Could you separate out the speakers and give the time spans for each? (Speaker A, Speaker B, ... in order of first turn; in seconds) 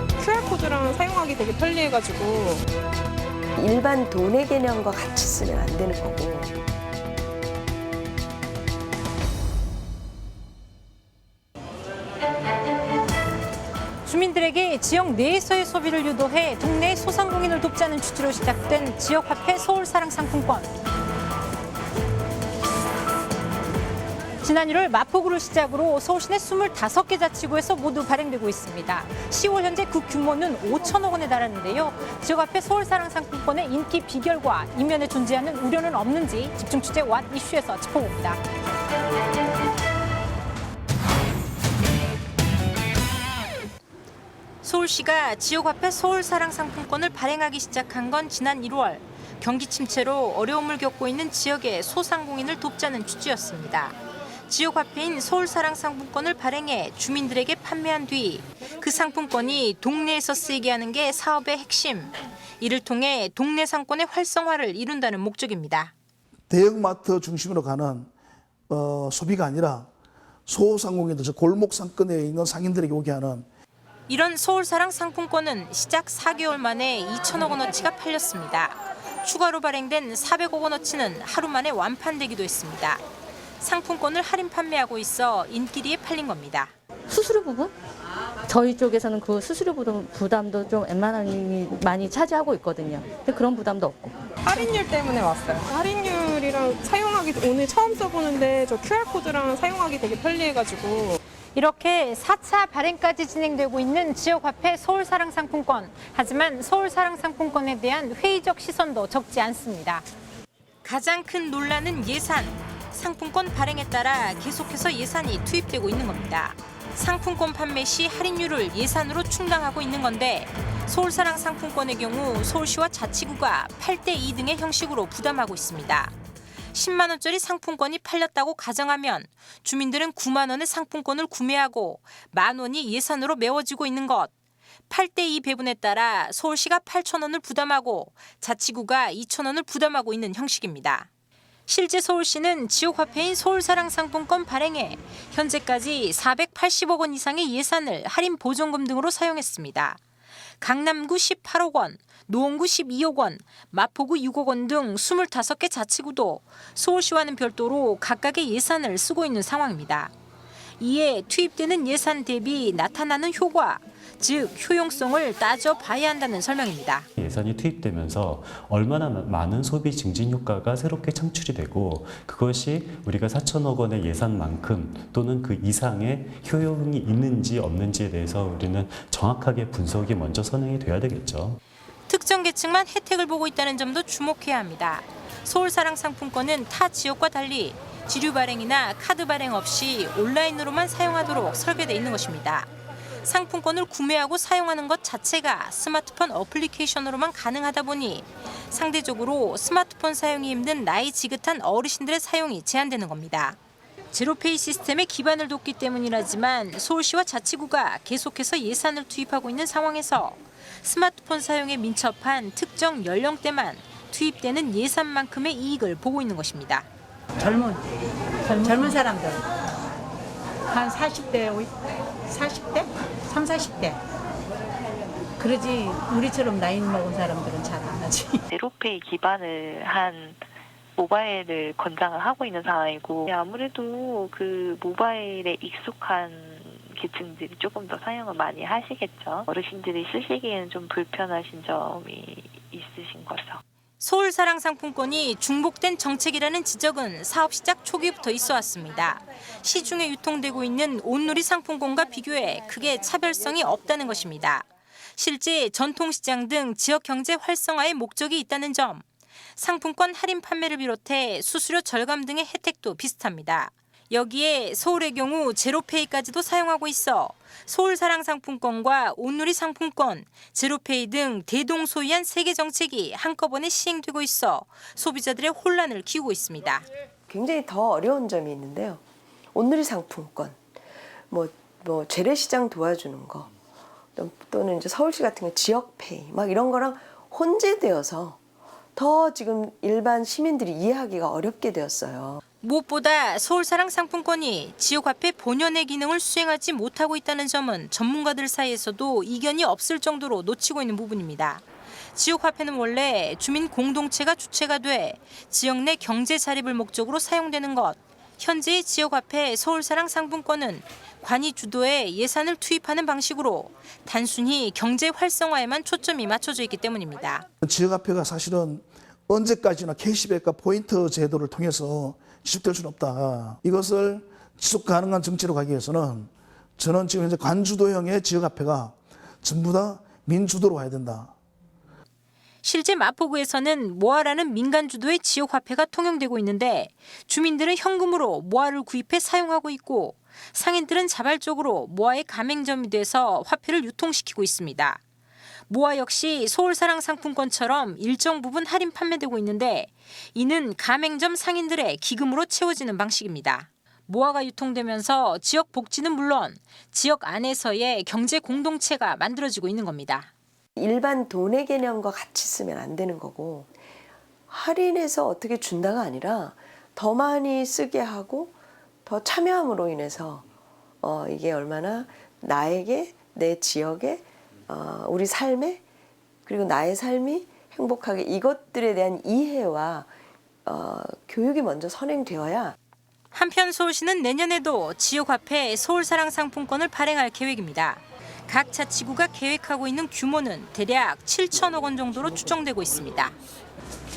Speaker A: 0.2-2.6, 94.5-101.2
Speaker B: 3.5-6.5, 277.3-279.0, 279.5-280.6, 281.3-283.5, 284.1-288.4, 288.9-292.4, 360.8-363.7, 364.5-368.5, 369.1-370.4, 371.0-375.8, 376.4-380.1, 380.6-382.8
Speaker C: 14.0-20.7, 24.4-38.4, 44.6-54.0, 54.5-65.9, 74.1-83.0, 83.6-86.7, 101.5-110.0, 110.8-126.1, 126.7-134.3, 134.9-141.1, 141.7-150.0, 150.6-160.1, 160.8-167.1, 182.1-192.7, 193.2-203.6, 204.1-216.9, 244.0-259.0, 259.6-276.8, 292.6-317.4, 332.6-345.0, 345.7-360.3, 383.3-393.3
Speaker D: 66.5-68.1, 68.7-69.9, 70.5-73.5, 317.6-331.3
Speaker E: 87.1-87.7, 88.5-94.2
Speaker F: 167.2-181.6
Speaker G: 217.4-217.8, 218.5-219.4, 220.7-221.7, 222.3-224.0, 225.4-228.4
Speaker H: 228.5-230.4, 231.0-243.6